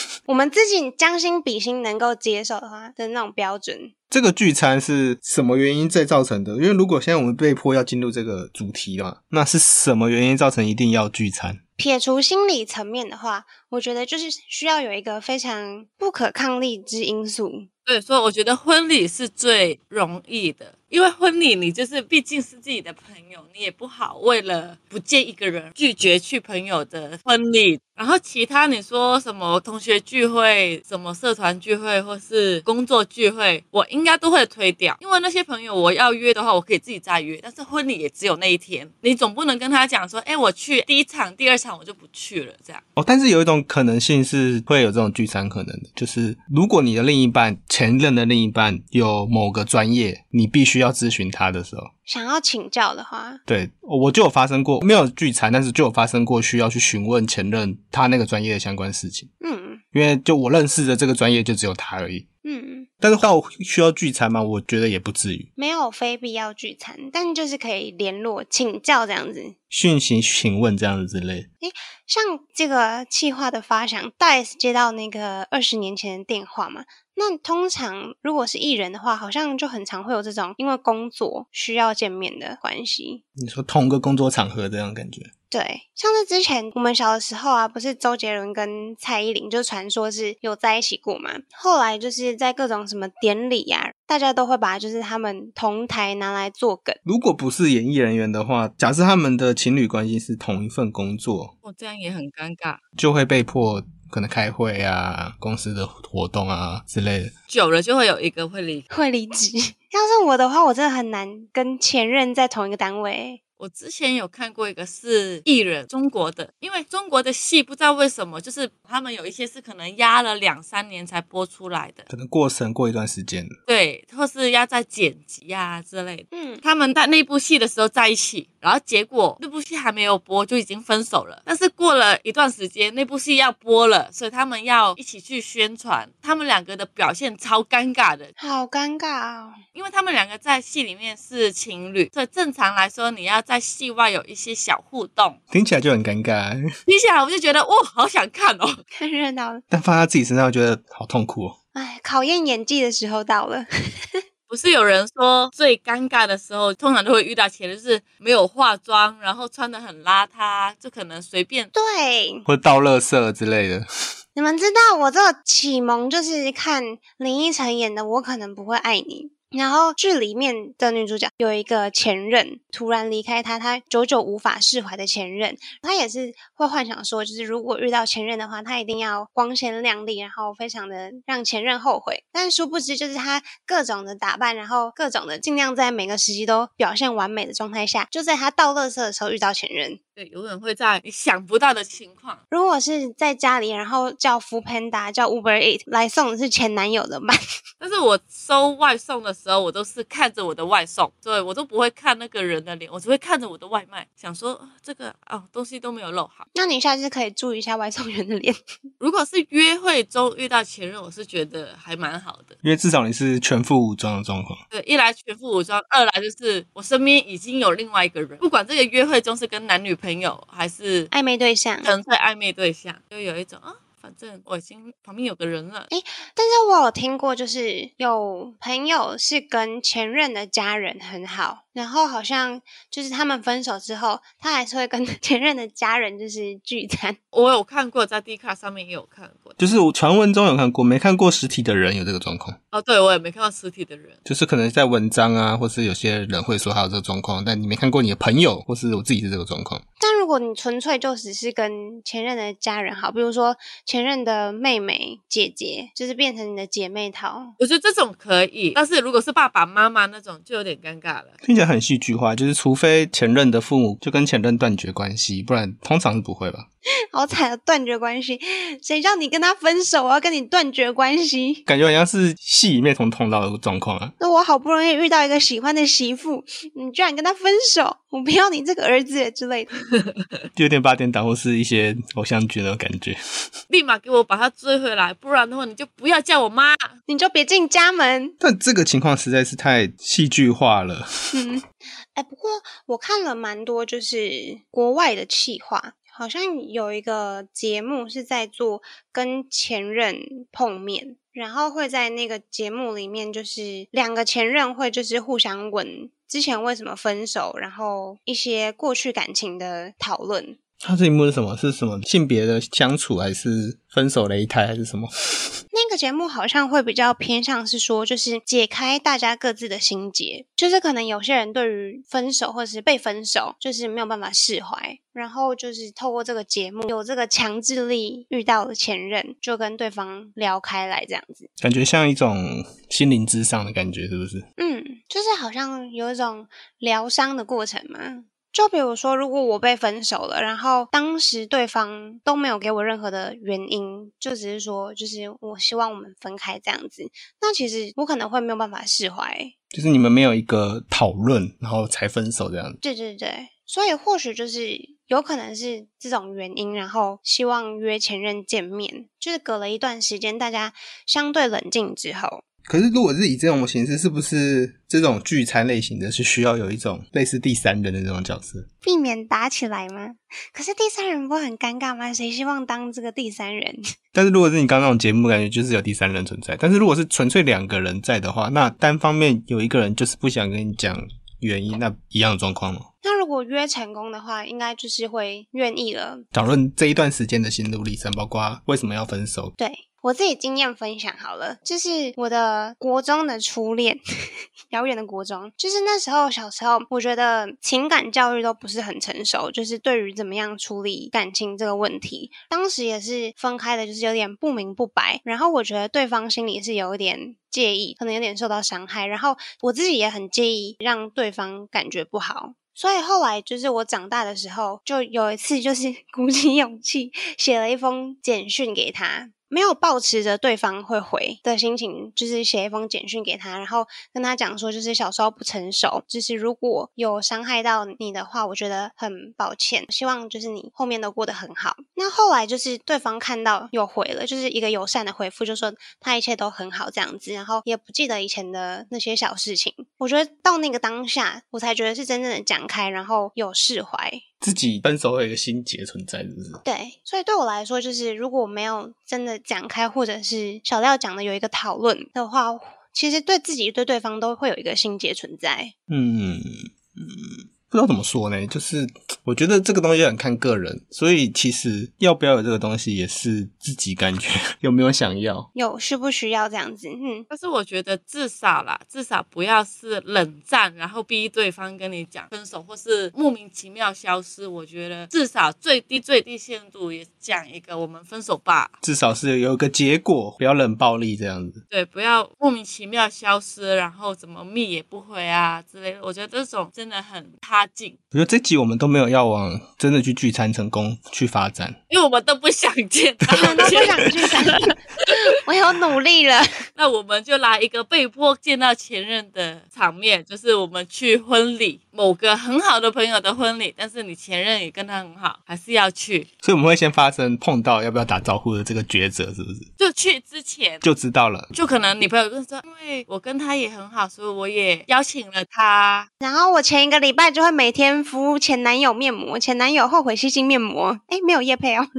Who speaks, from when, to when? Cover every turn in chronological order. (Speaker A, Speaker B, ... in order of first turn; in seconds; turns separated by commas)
Speaker A: 0.3-3.9, Speaker B: 4.1-11.6, Speaker A: 11.8-17.7, Speaker C: 17.9-42.8, Speaker B: 43.0-51.9, Speaker A: 52.1-53.4, Speaker B: 53.5-59.3, Speaker A: 59.4-59.8, Speaker B: 59.9-62.3, Speaker A: 62.4-62.9, Speaker B: 63.0-65.5, Speaker A: 65.6-69.6, Speaker B: 69.7-71.5, Speaker A: 71.6-83.2, Speaker B: 83.4-85.3, Speaker A: 85.5-97.0, Speaker B: 97.0-101.5, Speaker C: 101.6-102.8, Speaker B: 103.0-107.3, Speaker C: 107.5-108.8, Speaker A: 108.9-113.4, Speaker C: 113.6-122.1, Speaker B: 122.1-123.6, Speaker C: 123.7-138.3, Speaker A: 126.3-126.6, Speaker A: 138.4-139.6, Speaker C: 139.8-145.4, Speaker B: 145.5-146.7, Speaker C: 146.9-148.8, Speaker A: 148.9-149.6, Speaker B: 149.7-151.6, Speaker A: 151.8-154.2, Speaker C: 154.5-161.7, Speaker A: 161.7-162.5, Speaker B: 162.5-163.9, Speaker A: 164.4-190.0, Speaker C: 190.2-192.4, Speaker A: 192.5-197.4, Speaker C: 197.8-206.5, Speaker A: 206.5-208.6, Speaker C: 209.0-212.6, Speaker B: 212.6-214.6, Speaker C: 214.7-221.1, Speaker A: 221.1-221.9, Speaker C: 221.8-225.9, Speaker A: 225.9-237.2, Speaker C: 237.3-239.6, Speaker B: 239.6-242.6, Speaker C: 242.7-244.2, Speaker B: 244.3-249.8, Speaker A: 250.0-257.6, Speaker C: 257.6-261.3, Speaker B: 261.4-266.7, Speaker A: 267.1-271.6, Speaker B: 271.7-274.1, Speaker A: 274.2-279.7, Speaker C: 279.9-280.2, Speaker B: 280.6-283.2, Speaker C: 283.7-286.9, Speaker A: 287.1-288.4, Speaker B: 288.4-291.1, Speaker A: 291.3-291.6, Speaker A: 292.1-310.6, Speaker B: 310.8-315.6, Speaker A: 315.7-331.5, Speaker B: 331.6-334.4, Speaker A: 334.6-349.5, Speaker B: 349.7-352.8, Speaker A: 352.8-362.4, Speaker B: 362.7-368.7, Speaker A: 368.8-373.8, Speaker B: 374.1-382.9, Speaker A: 383.0-386.2, Speaker B: 386.3-389.5, Speaker A: 389.6-394.0, Speaker A: 394.7-444.2, Speaker B: 444.4-446.6, Speaker A: 446.6-455.7, Speaker B: 455.9-465.5, Speaker A: 465.6-467.3, Speaker C: 467.3-478.7, Speaker B: 478.8-481.6, Speaker C: 481.7-488.0, Speaker B: 488.1-491.8, Speaker C: 491.9-495.3, Speaker B: 493.4-493.9, Speaker A: 493.4-496.5, Speaker C: 496.8-506.3, Speaker B: 506.4-509.7, Speaker C: 509.8-510.8, Speaker B: 510.8-511.5, Speaker C: 511.5-516.1, Speaker A: 516.2-521.9